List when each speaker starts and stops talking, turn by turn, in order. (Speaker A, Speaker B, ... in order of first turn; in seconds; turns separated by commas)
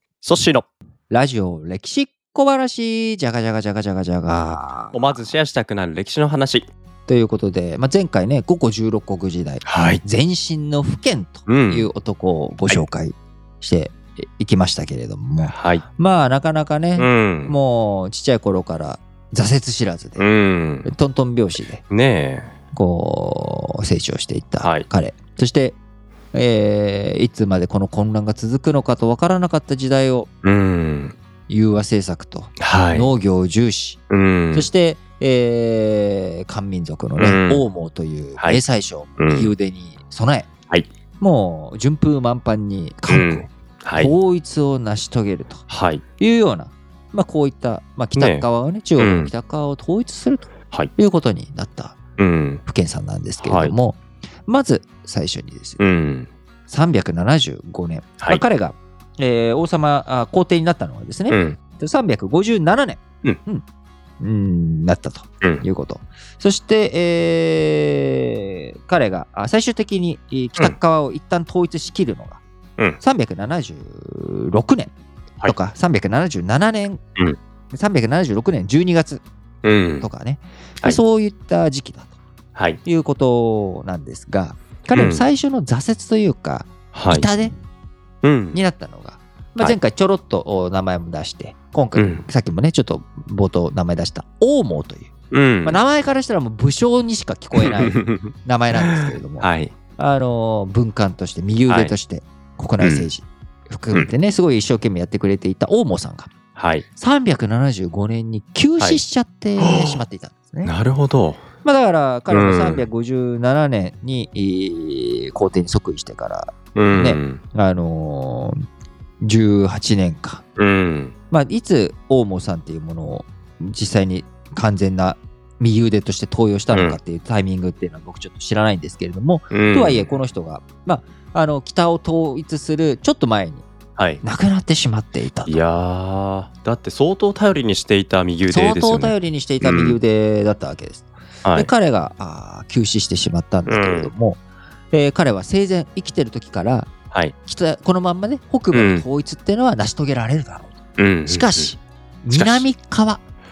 Speaker A: 0.2-0.7, Speaker B: 1.1-5.3, Speaker A: 4.9-6.7, Speaker B: 7.1-20.2, Speaker A: 9.7-10.0, Speaker A: 11.5-11.9, Speaker A: 15.4-15.8, Speaker A: 17.0-17.5, Speaker A: 20.2-20.9, Speaker B: 20.8-21.8, Speaker A: 21.9-22.5, Speaker B: 22.7-25.8, Speaker A: 24.6-24.9, Speaker B: 26.3-30.3, Speaker A: 30.4-31.1, Speaker B: 31.5-34.0, Speaker A: 32.6-33.1, Speaker A: 34.1-34.7, Speaker B: 34.5-40.5, Speaker A: 37.2-37.6, Speaker A: 39.2-39.5, Speaker B: 41.2-45.6, Speaker A: 43.1-44.1, Speaker A: 45.7-46.0, Speaker B: 46.2-52.0, Speaker A: 48.1-48.4, Speaker A: 49.0-49.3, Speaker A: 52.2-52.6, Speaker B: 52.6-55.8, Speaker A: 53.4-53.7, Speaker A: 55.8-56.3, Speaker B: 56.7-63.6, Speaker A: 61.3-61.6, Speaker B: 64.2-72.4, Speaker B: 73.0-74.9, Speaker B: 75.4-77.0, Speaker B: 77.7-79.2, Speaker A: 79.6-80.1, Speaker B: 80.0-82.1, Speaker A: 82.5-82.8, Speaker B: 82.8-87.5, Speaker A: 84.9-85.2, Speaker A: 86.9-87.3, Speaker A: 88.2-88.6, Speaker B: 88.5-95.1, Speaker A: 91.9-92.2, Speaker A: 95.3-95.8, Speaker B: 95.6-106.3, Speaker A: 97.5-99.7, Speaker A: 101.7-101.9, Speaker A: 102.8-103.1, Speaker A: 106.5-106.8, Speaker B: 107.0-110.7, Speaker A: 109.6-110.0, Speaker A: 110.6-111.4, Speaker B: 111.6-118.6, Speaker A: 112.3-112.8, Speaker A: 116.7-117.4, Speaker B: 119.2-120.4, Speaker A: 120.6-121.1, Speaker B: 121.3-133.6, Speaker A: 126.7-127.0, Speaker A: 129.5-130.1, Speaker A: 134.0-134.2, Speaker B: 134.2-135.6, Speaker A: 135.4-140.0, Speaker B: 138.5-144.4, Speaker A: 141.4-141.7, Speaker A: 143.7-144.1, Speaker B: 144.9-146.9, Speaker B: 147.4-150.7, Speaker A: 148.7-149.0, Speaker A: 151.0-151.7, Speaker B: 151.2-153.2, Speaker A: 152.3-152.7